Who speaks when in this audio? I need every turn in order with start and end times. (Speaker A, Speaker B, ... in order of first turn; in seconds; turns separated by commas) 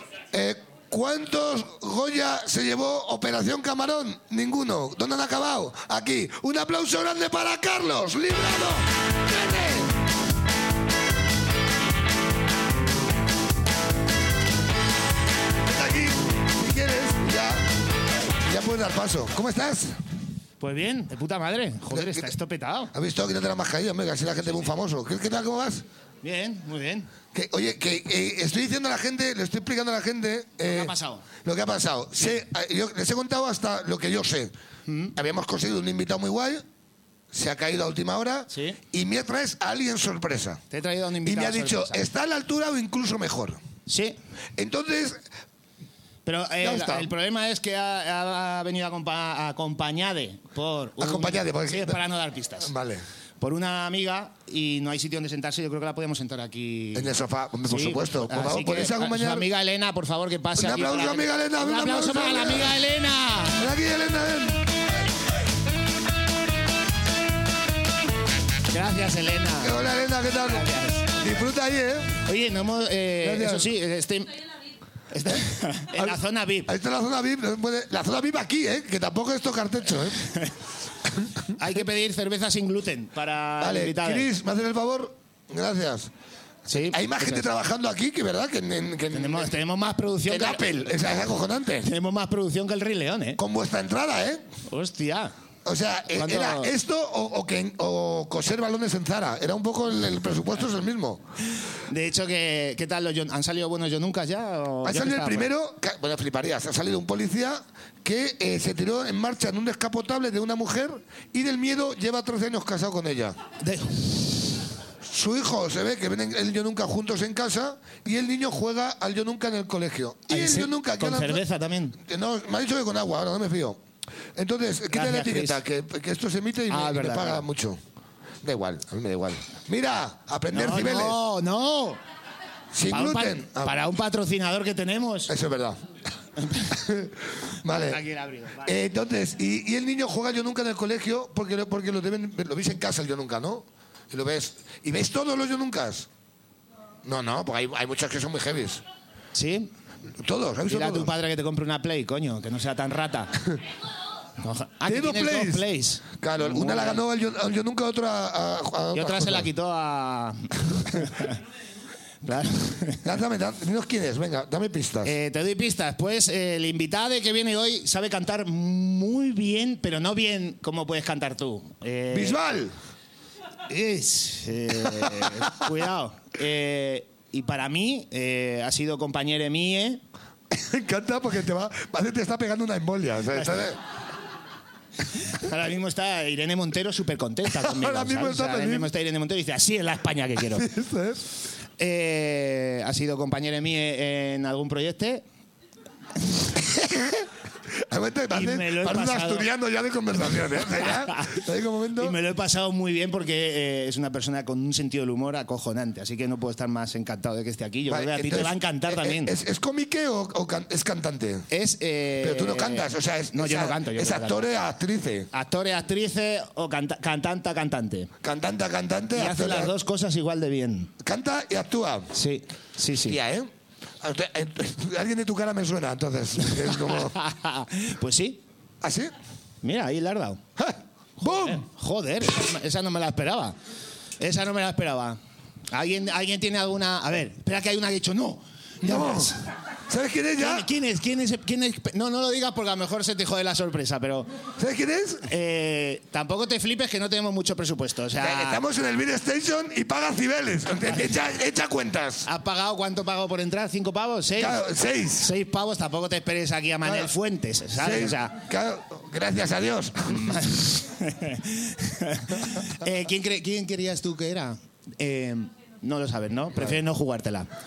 Speaker A: 0.3-9.9, Speaker A: 15.7-17.7, Speaker A: 18.4-20.0, Speaker B: 20.6-22.9, Speaker A: 21.9-22.3, Speaker A: 22.9-25.8, Speaker B: 26.2-27.1, Speaker A: 27.3-34.5, Speaker B: 30.6-31.3, Speaker B: 34.9-35.1, Speaker A: 35.1-36.6, Speaker A: 37.3-40.6, Speaker B: 38.5-38.8, Speaker B: 40.7-42.0, Speaker A: 41.2-43.6, Speaker B: 43.9-44.2, Speaker A: 44.6-45.2, Speaker B: 46.2-52.7, Speaker A: 46.6-47.1, Speaker A: 51.0-52.0, Speaker A: 52.6-53.0, Speaker B: 53.4-57.1, Speaker A: 56.9-59.5, Speaker B: 57.7-63.6, Speaker A: 60.6-62.8, Speaker A: 63.6-64.7, Speaker B: 68.7-69.8, Speaker A: 69.6-72.2, Speaker B: 70.6-71.1, Speaker B: 72.3-74.4, Speaker A: 73.2-73.7, Speaker B: 75.1-76.7, Speaker A: 75.9-80.3, Speaker B: 81.6-84.3, Speaker A: 83.6-86.1, Speaker B: 86.7-87.5, Speaker A: 86.7-89.5, Speaker B: 89.1-91.0, Speaker A: 90.3-91.9, Speaker B: 91.8-93.4, Speaker A: 93.4-94.5, Speaker B: 94.7-95.3, Speaker A: 95.7-101.2, Speaker B: 96.1-96.7, Speaker B: 101.9-105.5, Speaker A: 104.8-113.4, Speaker B: 113.6-114.3, Speaker A: 115.0-121.4, Speaker B: 120.3-122.0, Speaker A: 122.0-123.8, Speaker A: 124.4-127.8, Speaker B: 124.9-125.6, Speaker B: 126.7-127.5, Speaker A: 128.4-131.2, Speaker B: 130.5-132.0, Speaker A: 132.7-133.9, Speaker B: 132.9-135.3, Speaker A: 135.3-135.8, Speaker B: 136.4-136.7, Speaker A: 136.6-138.0, Speaker B: 137.8-138.8, Speaker A: 138.6-146.1, Speaker A: 147.0-148.8, Speaker B: 149.3-149.7, Speaker A: 150.2-151.1, Speaker B: 150.7-153.3, Speaker B: 154.4-157.0, Speaker A: 154.8-155.7, Speaker A: 156.2-159.5, Speaker B: 158.9-161.4, Speaker B: 162.2-163.1, Speaker A: 163.0-165.2, Speaker B: 165.0-172.4, Speaker A: 172.1-172.8, Speaker B: 173.7-180.0, Speaker A: 180.5-183.8, Speaker B: 185.3-190.7, Speaker A: 187.5-188.9, Speaker A: 190.5-191.2, Speaker B: 191.8-195.2, Speaker A: 196.8-197.2, Speaker A: 197.8-202.2, Speaker B: 198.3-199.5, Speaker B: 200.8-201.2, Speaker B: 202.0-209.3, Speaker A: 207.9-211.5, Speaker B: 211.5-214.5, Speaker A: 212.2-215.3, Speaker B: 215.3-218.1, Speaker A: 218.2-219.7, Speaker B: 219.2-220.9, Speaker A: 221.0-222.1, Speaker B: 222.2-223.2, Speaker A: 223.0-227.2, Speaker B: 226.9-228.4, Speaker A: 228.8-229.1, Speaker B: 229.6-230.4, Speaker A: 230.6-231.6, Speaker B: 231.2-233.6, Speaker B: 234.2-235.2, Speaker B: 235.7-239.4, Speaker A: 238.8-239.3, Speaker A: 239.9-240.7, Speaker B: 240.4-244.3, Speaker A: 244.6-245.3, Speaker B: 245.3-248.6, Speaker A: 248.2-252.3, Speaker B: 252.2-254.6, Speaker A: 254.3-255.3, Speaker B: 255.2-258.3, Speaker A: 256.8-257.1, Speaker A: 257.8-260.4, Speaker B: 260.1-267.5